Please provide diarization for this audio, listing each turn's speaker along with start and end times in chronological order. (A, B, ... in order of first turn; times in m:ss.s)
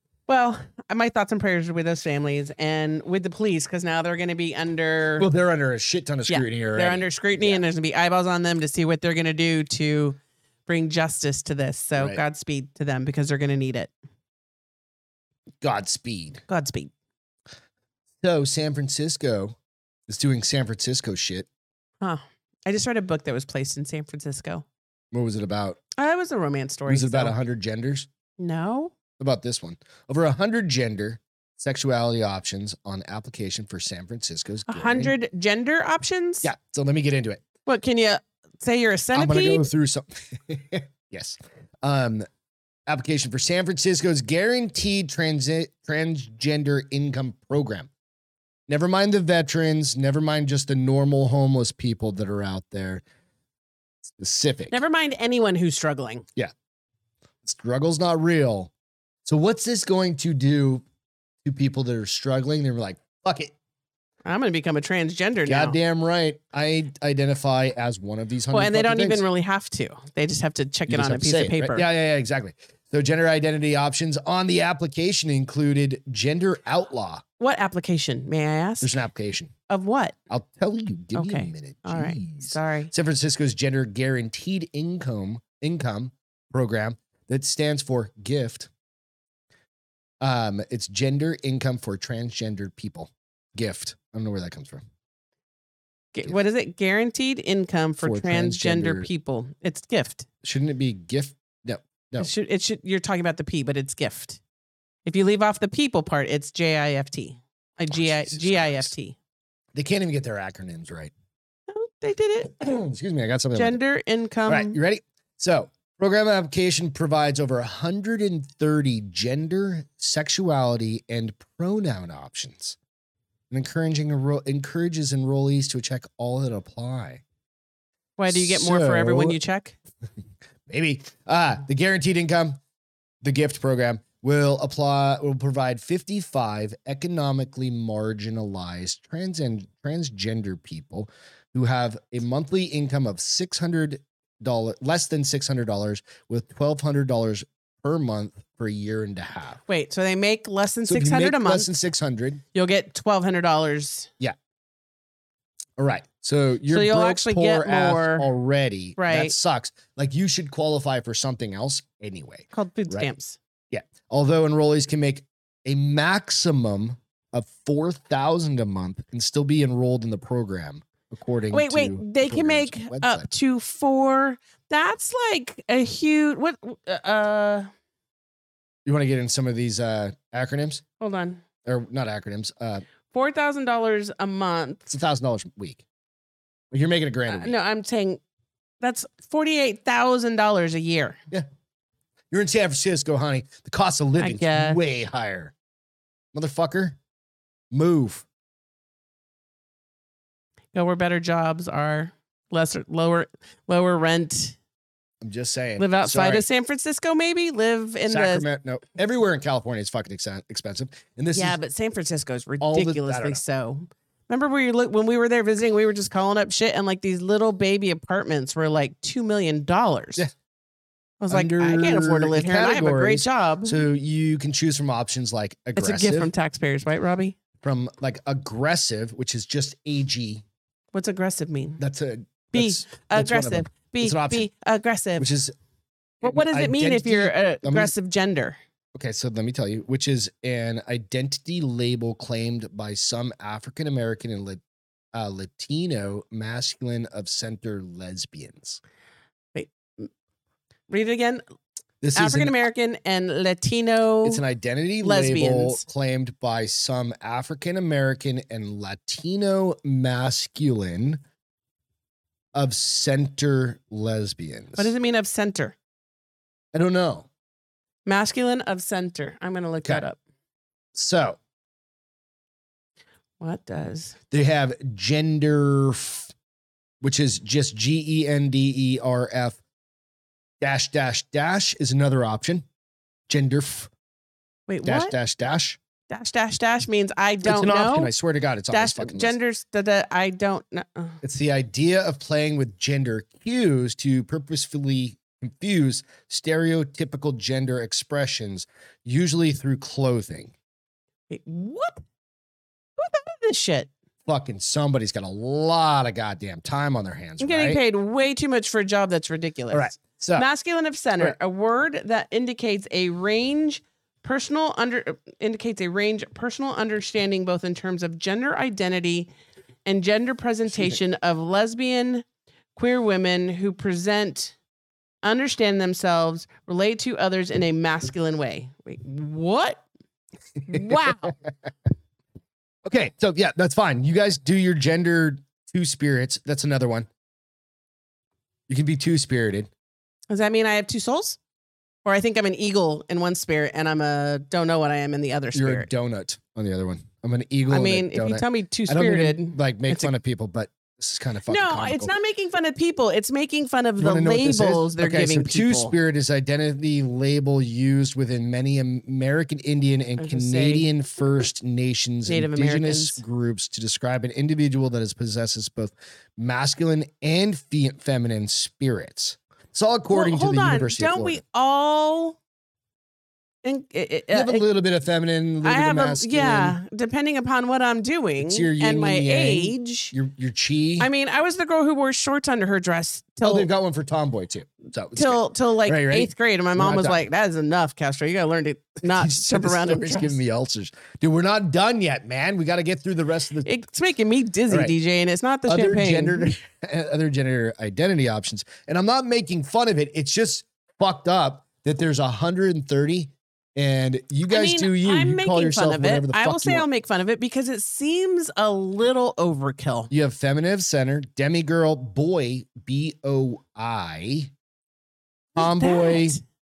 0:00.3-0:05.3 A
0:05.2-0:07.6 B
0:06.3-0:13.9 A
0:15.6-0:16.4 B
0:16.5-0:16.9 A
0:18.2-0:19.6 B
0:20.1-0:21.5 B
0:22.0-0:24.6 A
0:25.1-0:25.8 B
0:26.0-0:27.4 A
0:26.9-0:28.1 B
0:28.4-0:28.9 A
0:29.2-0:35.1 B
0:34.7-0:36.5 A
0:36.4-0:37.4 B
0:37.7-0:39.7 A
0:39.1-0:42.3 B
0:42.9-0:47.9 B
0:48.7-0:53.0 B
0:54.0-0:54.8 B
0:54.7-0:56.2 A
0:57.4-0:58.7 B
0:59.2-1:00.8 B
1:01.4-1:03.5 B
1:04.2-1:05.8 A
1:05.4-1:09.2 B
1:08.5-1:11.8 A
1:10.9-1:17.2 B
1:17.4-1:18.9 A
1:18.8-1:19.5 B
1:19.7-1:20.2 A
1:20.3-1:28.7 B
1:21.1-1:22.9 A
1:30.2-1:34.8 B
1:36.1-1:40.3 A
1:38.0-1:39.1 B
1:40.4-1:42.3 B
1:42.2-1:44.4 A
1:45.1-1:49.2 A
1:47.9-1:48.9 B
1:49.7-1:51.1 B
1:51.7-1:52.6 A
1:52.6-1:53.8 B
1:53.6-1:54.8 A
1:54.5-2:02.8 B
2:03.5-2:07.2 B
2:08.2-2:09.8 A
2:08.3-2:09.4 B
2:10.7-2:12.6 B
2:13.2-2:29.6 B
2:29.7-2:31.7 A
2:30.9-2:32.4 B
2:32.5-2:34.1 A
2:35.8-2:43.1 B
2:36.7-2:38.3 A
2:39.0-2:39.3 A
2:42.5-2:43.4 A
2:43.7-2:53.3 B
2:51.5-2:57.7 A
2:58.9-3:00.8 B
3:01.0-3:01.4 A
3:01.6-3:02.8 B
3:03.1-3:04.9 A
3:04.9-3:05.8 B
3:06.7-3:07.5 B
3:07.3-3:08.2 A
3:08.8-3:11.2 A
3:12.3-3:15.5 B
3:14.2-3:14.8 A
3:16.3-3:17.0 B
3:17.7-3:18.3 B
3:20.7-3:24.6 A
3:25.2-3:26.4 B
3:25.8-3:28.4 A
3:28.1-3:31.6 B
3:31.3-3:40.2 A
3:32.6-3:33.4 B
3:41.2-3:43.8 A
3:41.3-3:46.3 B
3:45.8-3:47.4 A
3:47.6-3:50.4 B
3:50.9-3:51.8 A
3:51.8-3:54.5 B
3:52.5-3:55.3 A
3:55.2-3:55.5 B
3:56.2-3:57.9 B
3:56.2-3:58.6 A
3:58.9-4:04.6 B
4:05.1-4:08.8 B
4:09.6-4:10.1 A
4:10.9-4:11.4 A
4:12.0-4:12.6 B
4:12.2-4:14.4 A
4:14.2-4:21.2 B
4:15.0-4:15.8 A
4:22.5-4:24.9 B
4:24.8-4:25.8 A
4:26.7-4:27.3 B
4:28.0-4:30.2 A
4:30.9-4:31.4 B
4:33.4-4:34.2 A
4:34.3-4:36.3 B
4:37.0-4:39.6 B
4:40.6-4:42.7 B
4:43.3-4:43.9 B
4:44.7-4:45.2 A
4:44.8-4:45.8 B
4:46.1-4:48.1 A
4:47.4-4:49.4 B
4:48.7-4:51.2 A
4:51.2-5:00.5 B
5:01.3-5:02.0 A
5:03.0-5:03.9 A
5:04.3-5:07.8 B
5:07.4-5:19.3 A
5:09.7-5:10.5 B
5:19.9-5:24.6 A
5:25.2-5:29.8 A
5:30.7-5:31.4 A
5:30.7-5:31.4 B
5:32.8-5:37.1 B
5:38.7-5:39.7 B
5:40.3-5:41.4 A
5:42.0-5:45.9 A
5:45.5-5:52.1 B
5:47.7-5:50.1 A
5:51.5-5:55.9 A
5:54.0-6:11.4 B
6:00.2-6:00.9 A
6:02.3-6:03.2 A
6:10.1-6:12.4 A
6:13.6-6:14.6 A
6:14.3-6:16.8 B
6:15.6-6:20.1 A
6:18.4-6:21.1 B
6:21.0-6:23.7 A
6:23.4-6:27.2 B
6:25.2-6:30.4 A
6:29.0-6:33.7 B
6:33.6-6:36.6 A
6:35.7-6:46.9 B
6:44.5-6:50.1 A
6:50.1-6:54.5 B
6:55.6-6:56.4 B
6:55.6-6:56.4 A